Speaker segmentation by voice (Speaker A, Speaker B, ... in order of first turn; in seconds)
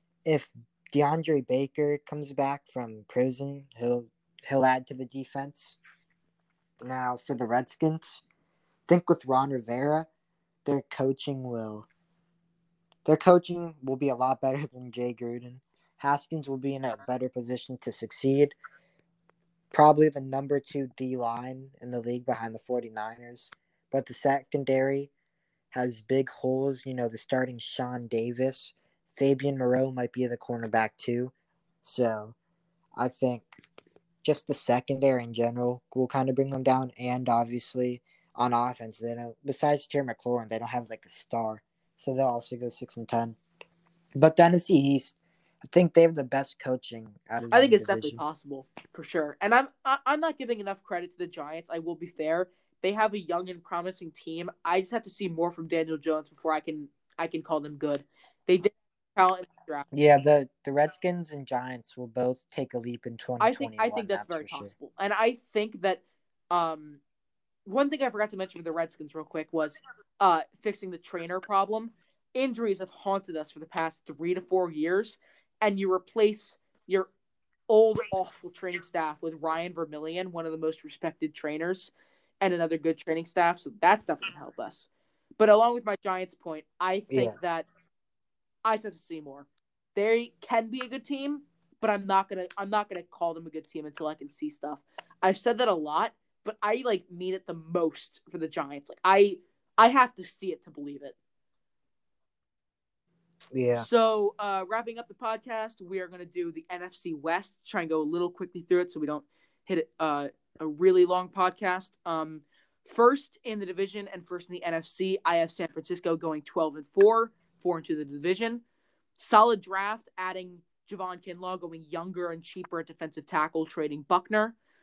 Speaker A: 0.2-5.8, 6.8-8.2, 8.9-10.1, 10.7-11.9, 13.1-18.6, 19.7-25.1, 25.7-32.4, 33.0-33.6, 34.2-43.4, 44.1-48.2, 59.9-64.7, 87.1-87.4, 103.5-103.9
Speaker B: 47.5-59.9, 63.4-67.0, 67.7-77.1, 77.7-87.7, 88.7-101.2, 103.8-118.6, 119.2-124.6